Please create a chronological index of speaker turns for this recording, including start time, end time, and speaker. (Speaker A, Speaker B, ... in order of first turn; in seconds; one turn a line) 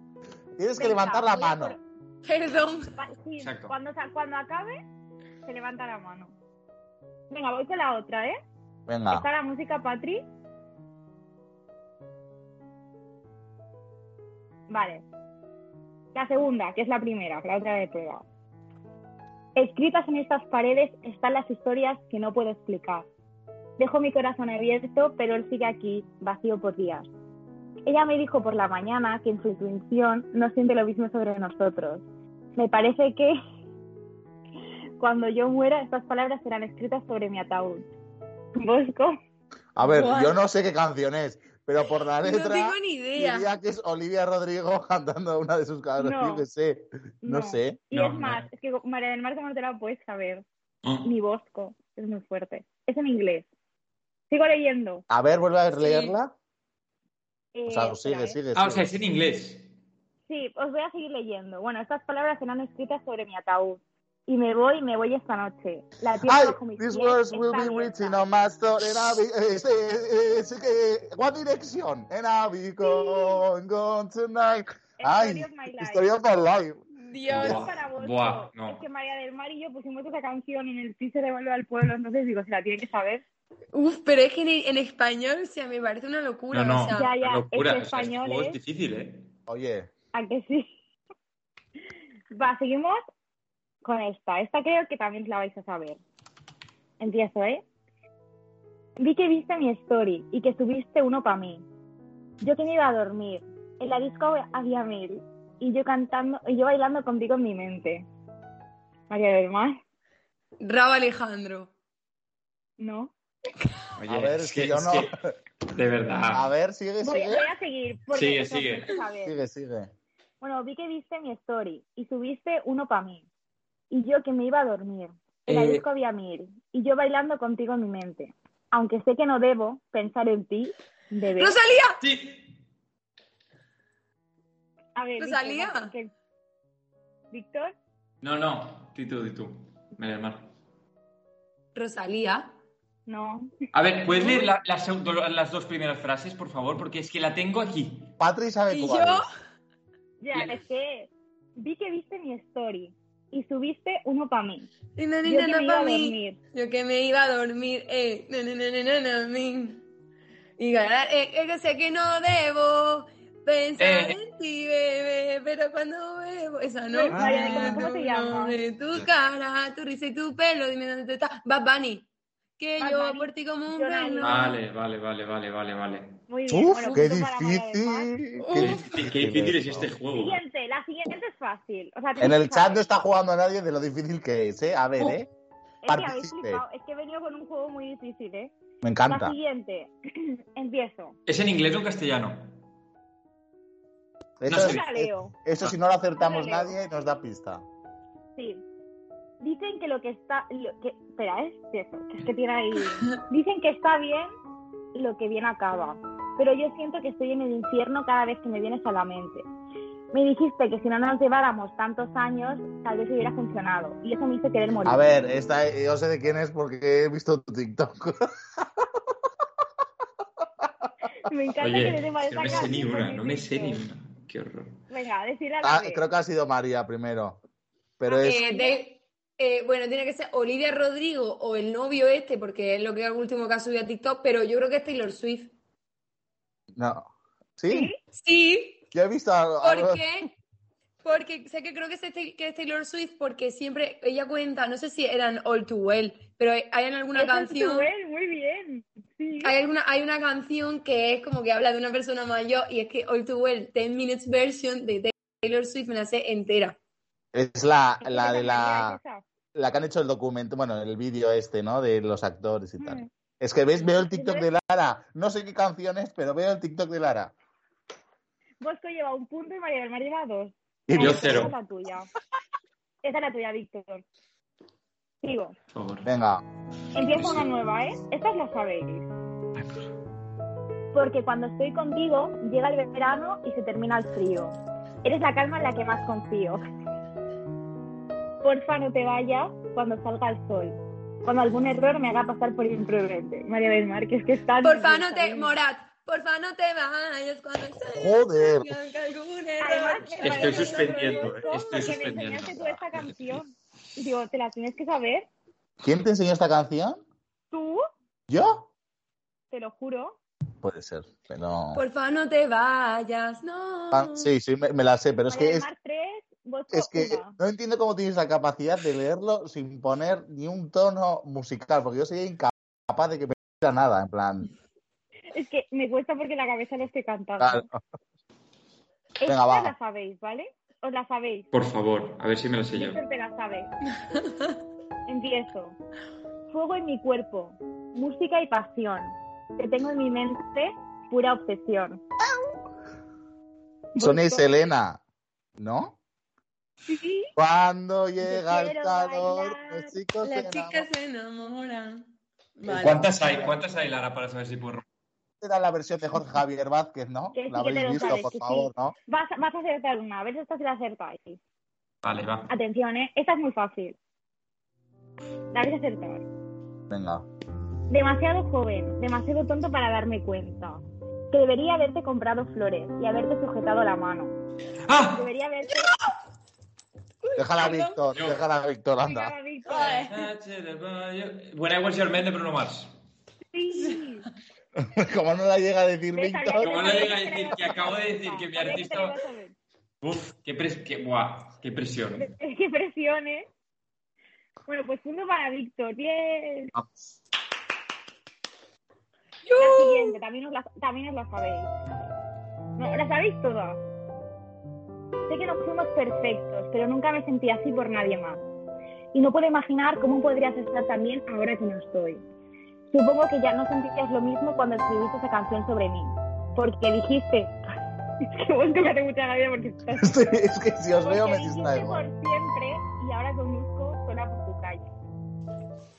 Speaker A: 0.6-1.8
Speaker B: 0.8-1.8
Speaker C: 2.2-2.9
Speaker B: 3.0-4.8
Speaker D: 3.4-3.7
Speaker B: 5.5-6.3
Speaker B: 7.3-8.4
Speaker A: 8.9-9.2
Speaker B: 9.1-10.2
Speaker B: 14.7-15.0
Speaker B: 16.1-18.2
Speaker B: 19.6-23.1
Speaker B: 23.8-27.1
Speaker B: 27.9-32.0
Speaker B: 32.6-33.4
Speaker B: 35.0-37.8
Speaker B: 38.5-39.2
Speaker A: 39.8-47.8
Speaker C: 39.8-40.4
Speaker C: 42.2-43.5
Speaker B: 46.0-46.5
Speaker B: 47.2-50.5
Speaker D: 47.9-48.5
Speaker B: 51.0-53.5
Speaker B: 54.3-55.0
Speaker A: 55.1-56.3
Speaker C: 55.7-56.1
Speaker B: 57.5-58.4
Speaker A: 57.7-58.9
Speaker D: 58.5-59.7
Speaker B: 60.3-68.2
Speaker A: 66.3-76.8
Speaker B: 72.8-73.4
Speaker B: 75.0-76.1
Speaker C: 77.0-77.7
Speaker D: 77.3-78.8
Speaker B: 77.3-83.2
Speaker C: 83.7-87.1
Speaker D: 86.5-89.2
Speaker B: 86.9-88.6
Speaker A: 89.5-89.9
Speaker B: 90.1-90.7
Speaker B: 92.3-93.0
Speaker B: 93.8-96.0
Speaker B: 97.0-97.6
Speaker B: 99.0-101.6
Speaker B: 102.4-108.1
Speaker B: 109.1-109.8
Speaker C: 110.6-111.7
Speaker B: 112.8-113.1
Speaker D: 114.0-115.1
Speaker A: 114.0-115.2
Speaker D: 115.7-116.5
Speaker A: 116.3-117.5
Speaker B: 117.0-119.4
Speaker D: 118.1-119.0
Speaker A: 119.2-119.9
Speaker B: 120.4-123.2
Speaker B: 123.9-131.6
Speaker D: 125.5-125.8
Speaker C: 131.4-132.0
Speaker D: 132.0-132.4
Speaker B: 135.0-136.1
Speaker C: 135.2-135.9
Speaker B: 137.3-137.7
Speaker D: 138.2-140.5
Speaker C: 141.8-142.5
Speaker B: 143.1-143.5
Speaker D: 143.7-148.1
Speaker B: 144.1-144.5
Speaker A: 148.2-149.2
Speaker C: 148.7-149.3
Speaker B: 150.2-154.7
Speaker C: 155.0-159.8
Speaker B: 155.2-156.4
Speaker C: 160.6-172.1
Speaker D: 163.8-164.2
Speaker B: 166.9-168.6
Speaker A: 167.1-167.8
Speaker C: 172.6-174.6
Speaker B: 172.8-174.5
Speaker D: 174.2-176.2
Speaker B: 176.3-178.1
Speaker A: 176.5-179.9
Speaker C: 178.4-178.9
Speaker D: 178.6-180.4
Speaker B: 180.1-182.9
Speaker A: 182.2-185.3
Speaker B: 185.8-188.5
Speaker A: 185.9-186.6
Speaker A: 188.8-189.3
Speaker B: 189.1-191.2
Speaker D: 191.3-192.6
Speaker A: 194.4-197.6
Speaker D: 194.5-194.8
Speaker B: 194.5-195.3
Speaker B: 196.2-196.7
Speaker B: 198.4-198.6
Speaker B: 199.4-204.3
Speaker B: 204.9-209.5
Speaker B: 210.1-215.1
Speaker A: 214.8-218.9
Speaker B: 221.2-223.8
Speaker D: 221.6-224.8
Speaker B: 224.9-226.0
Speaker A: 225.6-227.4
Speaker A: 228.0-228.4
Speaker B: 228.1-228.8
Speaker C: 228.2-235.5
Speaker A: 236.8-237.9
Speaker B: 237.7-238.0
Speaker C: 238.1-238.8
Speaker A: 238.9-240.0
Speaker C: 239.6-240.3
Speaker C: 241.0-247.9
Speaker B: 247.1-249.5
Speaker C: 249.4-256.8
Speaker A: 257.3-259.0
Speaker B: 258.0-259.2
Speaker A: 259.5-267.4
Speaker B: 262.8-263.1
Speaker B: 263.9-264.5
Speaker B: 268.6-272.1
Speaker A: 270.9-271.5
Speaker D: 271.0-271.5
Speaker B: 273.0-274.1
Speaker B: 275.2-275.6
Speaker D: 275.7-276.1
Speaker A: 276.1-276.4
Speaker B: 276.9-279.1
Speaker D: 277.0-277.5
Speaker B: 280.9-286.6
Speaker B: 288.4-295.6
Speaker C: 294.6-301.9
Speaker A: 297.8-298.8
Speaker B: 299.6-305.3
Speaker D: 300.1-303.4
Speaker A: 305.8-307.0
Speaker B: 307.5-307.8
Speaker A: 308.3-308.7
Speaker B: 309.5-310.2
Speaker A: 310.6-311.8
Speaker C: 311.7-314.3
Speaker A: 313.9-315.7
Speaker B: 315.3-317.4
Speaker A: 316.7-324.5
Speaker B: 325.3-327.7
Speaker A: 327.4-327.8
Speaker B: 329.2-331.5
Speaker A: 329.3-329.7
Speaker D: 331.5-333.0
Speaker B: 332.7-333.7
Speaker C: 334.2-334.5
Speaker B: 335.1-335.8
Speaker B: 336.5-342.0
Speaker B: 344.0-344.4
Speaker A: 344.0-345.0
Speaker A: 345.6-346.0
Speaker B: 346.9-347.3
Speaker A: 347.4-350.9
Speaker B: 348.2-349.9
Speaker C: 350.2-352.1
Speaker C: 352.6-353.1
Speaker D: 352.7-354.9
Speaker A: 355.4-358.9
Speaker B: 357.3-361.4
Speaker D: 362.0-362.5
Speaker B: 362.5-364.0
Speaker B: 365.5-366.2
Speaker A: 366.9-367.2
Speaker B: 367.9-374.4
Speaker D: 374.9-375.2
Speaker B: 375.1-375.9
Speaker C: 377.4-378.0
Speaker A: 377.4-379.3
Speaker D: 377.6-378.4
Speaker B: 379.0-380.1
Speaker C: 379.7-380.2
Speaker D: 379.9-382.9
Speaker B: 383.5-384.2
Speaker A: 384.8-386.9
Speaker B: 386.1-389.6
Speaker D: 386.6-389.2
Speaker D: 390.0-392.3
Speaker B: 392.2-393.5
Speaker B: 394.7-396.7
Speaker C: 399.5-400.2
Speaker B: 399.6-401.7
Speaker B: 402.8-403.8
Speaker B: 405.3-408.4
Speaker B: 409.1-412.2
Speaker B: 412.9-417.6
Speaker B: 418.2-420.2
Speaker A: 420.0-422.0
Speaker B: 421.0-424.9